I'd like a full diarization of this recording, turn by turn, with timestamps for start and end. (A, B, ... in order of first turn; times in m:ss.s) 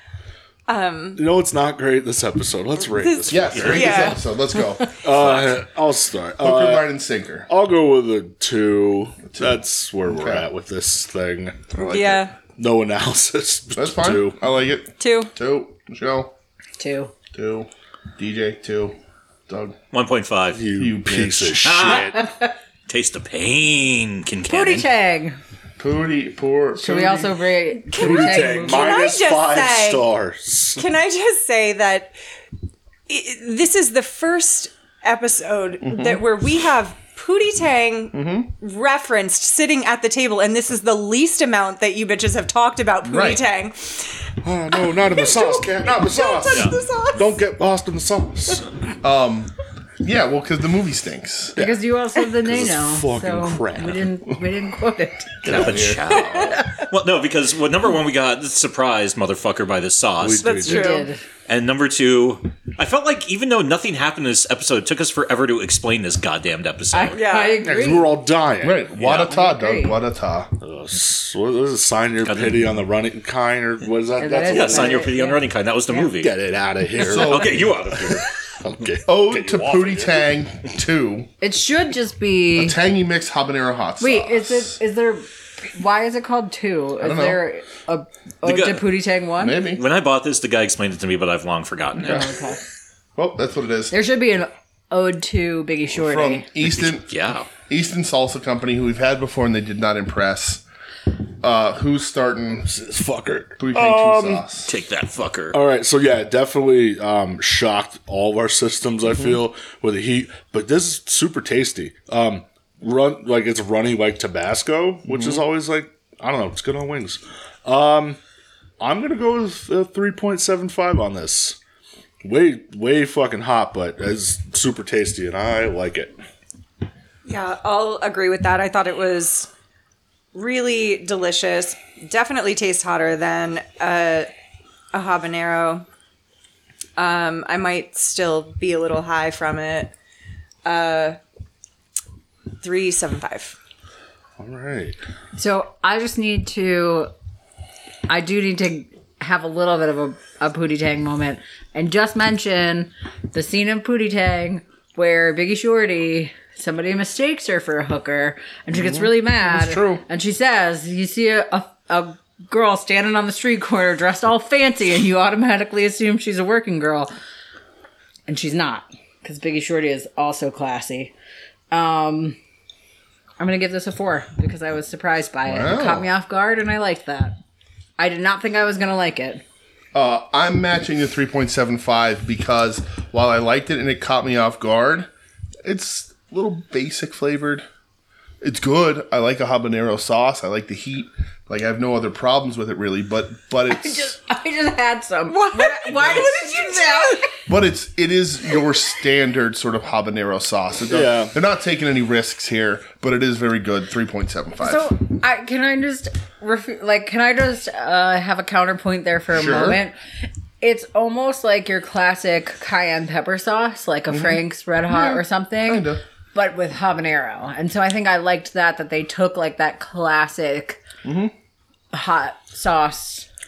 0:00.7-0:01.2 A
0:01.2-0:04.0 B
0:02.9-0:04.3 A
0:03.3-0:05.0 C
0:03.5-0:03.9 D
0:05.0-0:06.9 B
0:05.2-0:05.5 D
0:06.4-0:07.5 C
0:07.5-0:11.7 B
0:09.3-0:10.4 C
0:11.7-0:12.3 C
0:11.9-0:12.4 A
0:12.4-0:14.4 B
0:13.8-0:16.3 C
0:15.0-0:15.3 A
0:16.8-0:17.1 E
0:17.3-0:19.0 C
0:19.5-0:19.8 C
0:19.9-0:20.6 D
0:20.5-0:22.2 B
0:20.8-0:21.8 C
0:21.6-0:22.2 D
0:22.0-0:22.5 E
0:22.9-0:24.8 D
0:24.4-0:25.4 E
0:25.8-0:27.4 C
0:26.8-0:29.0 E
0:27.9-0:30.8 B
0:28.0-0:30.1 A
0:30.7-0:32.1 A
0:33.1-0:47.4 A
0:35.8-0:36.2 C
0:38.1-0:38.5 C
0:43.0-0:43.4 C
0:44.4-0:48.9 B
0:49.0-0:51.6 C
0:51.6-0:54.5 B
0:51.6-0:55.6 E
0:55.4-0:56.0 C
0:55.4-1:00.9 D
0:55.4-0:56.6 B
0:56.4-0:56.7 E
1:00.2-1:00.9 B
1:00.4-1:01.1 A
1:00.7-1:01.2 E
1:01.5-1:07.2 D
1:06.9-1:08.2 E
1:07.1-1:07.6 A
1:07.6-1:08.9 B
1:08.6-1:10.5 C
1:09.0-1:09.3 D
1:09.0-1:10.0 E
1:10.6-1:15.1 B
1:12.2-1:12.6 D
1:14.2-1:15.4 E
1:14.5-1:16.3 D
1:16.0-1:20.2 B
1:17.0-1:18.3 D
1:17.1-1:17.6 C
1:19.0-1:21.3 C
1:21.4-1:22.8 E
1:22.5-1:24.8 C
1:24.0-1:29.6 E
1:27.0-1:27.4 C
1:28.4-1:28.8 D
1:29.4-1:29.8 C
1:29.8-1:32.3 D
1:32.0-1:32.6 E
1:33.2-1:33.9 C
1:33.9-1:36.4 E
1:35.9-1:37.1 C
1:36.6-1:37.5 D
1:37.7-1:40.6 C
1:41.4-1:42.7 C
1:42.6-1:44.4 B
1:43.6-1:44.7 C
1:44.7-1:45.6 D
1:45.5-1:58.2 B
1:55.1-1:55.4 C
1:58.8-2:01.6 B
2:02.2-2:06.1 B
2:07.2-2:09.5 A
2:10.3-2:14.3 A
2:14.9-2:15.8 A
2:17.0-2:19.9 A
2:20.6-2:21.2 A
2:22.6-2:23.6 A
2:24.4-2:25.0 B
2:25.3-2:27.1 E
2:28.1-2:47.1 E
2:38.7-2:40.0 C
2:48.3-2:51.1 E
2:51.7-2:52.4 E
2:53.4-2:57.4 E
2:55.4-2:56.1 C
2:58.0-2:59.4 E
2:59.9-3:05.1 C
3:05.6-3:07.6 C
3:08.4-3:14.2 C
3:13.7-3:17.4 E
3:15.3-3:17.3 A
3:17.5-3:24.9 C
3:20.9-3:21.3 B
3:24.6-3:30.0 E
3:29.3-3:29.8 C
3:30.6-3:40.8 E
3:34.1-3:34.4 C
3:34.9-3:36.0 C
3:41.0-3:41.3 C
3:41.9-3:43.2 E